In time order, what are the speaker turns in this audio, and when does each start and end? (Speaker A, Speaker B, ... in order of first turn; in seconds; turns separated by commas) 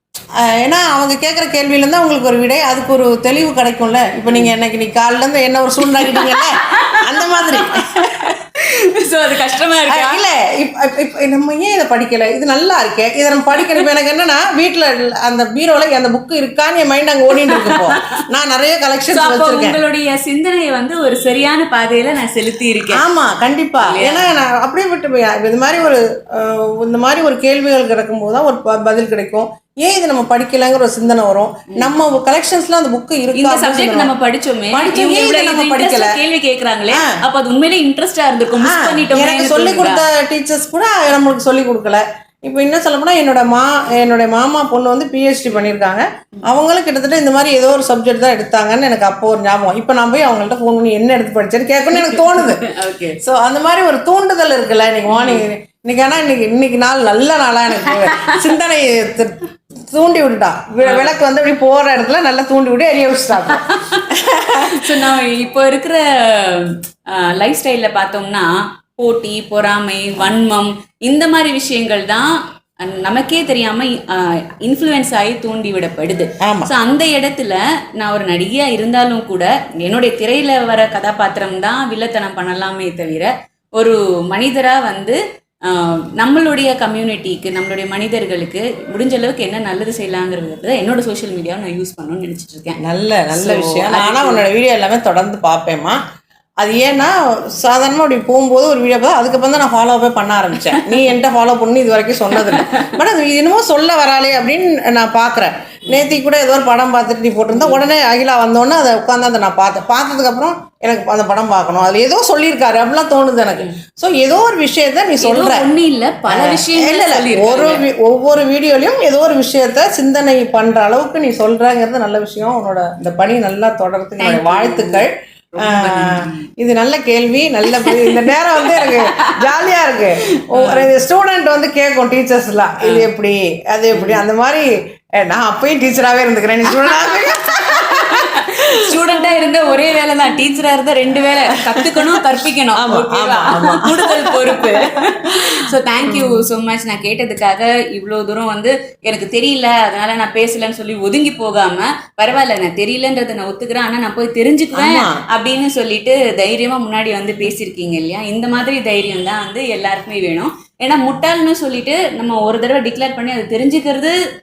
Speaker A: 0.3-8.3, Speaker B: 5.8-10.2, Speaker A: 9.9-19.8, Speaker B: 17.3-18.2, Speaker B: 19.1-23.0, Speaker A: 22.9-34.1, Speaker B: 23.8-24.2, Speaker B: 33.3-40.0, Speaker A: 34.7-36.2, Speaker A: 36.9-37.2, Speaker A: 38.6-52.7, Speaker B: 51.9-53.2, Speaker A: 53.2-65.1, Speaker B: 55.1-55.4, Speaker B: 57.8-58.5, Speaker B: 60.8-61.1, Speaker B: 63.4-72.3, Speaker B: 72.8-92.8, Speaker A: 76.4-76.7, Speaker A: 92.8-96.0, Speaker B: 93.3-94.4, Speaker A: 96.6-115.7, Speaker B: 102.3-102.9, Speaker B: 107.5-107.8, Speaker B: 115.2-117.8, Speaker A: 116.3-139.3, Speaker B: 124.2-126.5, Speaker B: 127.7-129.5, Speaker B: 130.3-130.9, Speaker B: 132.8-133.1, Speaker B: 133.9-134.2, Speaker B: 136.7-164.2, Speaker A: 141.2-146.5, Speaker A: 154.7-155.2